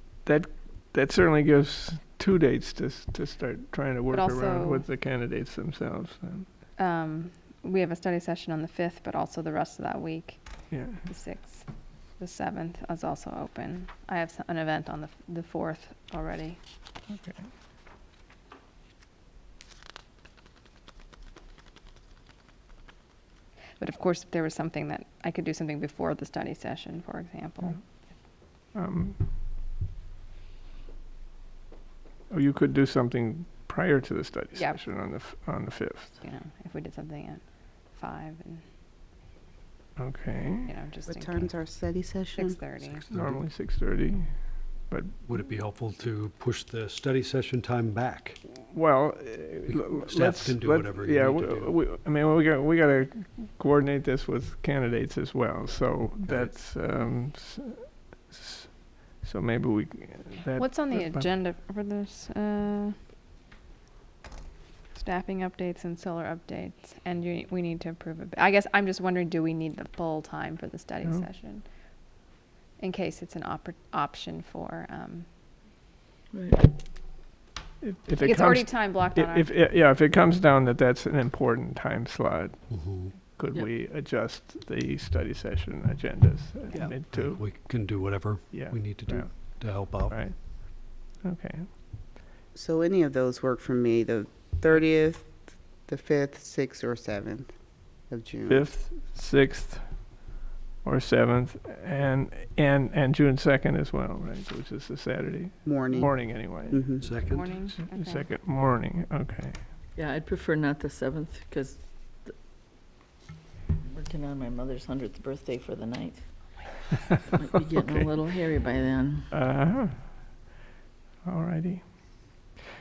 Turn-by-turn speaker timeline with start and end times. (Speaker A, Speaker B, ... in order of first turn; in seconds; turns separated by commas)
Speaker A: 0.2-6.5, Speaker B: 4.1-4.9, Speaker B: 6.8-16.6, Speaker A: 10.7-11.0, Speaker A: 17.1-17.5, Speaker B: 23.8-27.9, Speaker A: 28.7-29.3, Speaker A: 32.3-36.2, Speaker B: 34.6-34.9, Speaker B: 36.2-38.6, Speaker A: 40.0-40.7, Speaker B: 40.6-41.5, Speaker C: 41.1-42.6, Speaker B: 42.4-43.0, Speaker D: 42.8-43.4, Speaker A: 43.1-45.3, Speaker D: 45.2-48.4, Speaker A: 48.6-61.2, Speaker D: 49.7-51.8, Speaker D: 56.2-56.7, Speaker B: 60.6-63.0, Speaker B: 64.9-71.7, Speaker B: 72.8-75.3, Speaker E: 76.3-76.7, Speaker A: 77.8-91.7, Speaker B: 78.2-79.5, Speaker D: 82.7-83.2, Speaker D: 86.7-90.3, Speaker C: 92.5-97.5, Speaker C: 98.1-98.7, Speaker A: 98.5-100.3, Speaker A: 100.8-106.9, Speaker C: 105.7-107.1, Speaker B: 106.7-108.3, Speaker D: 107.0-107.5, Speaker A: 107.4-109.6, Speaker E: 110.0-112.4, Speaker E: 113.8-116.4, Speaker E: 117.4-119.3, Speaker A: 119.3-120.5, Speaker A: 121.2-122.5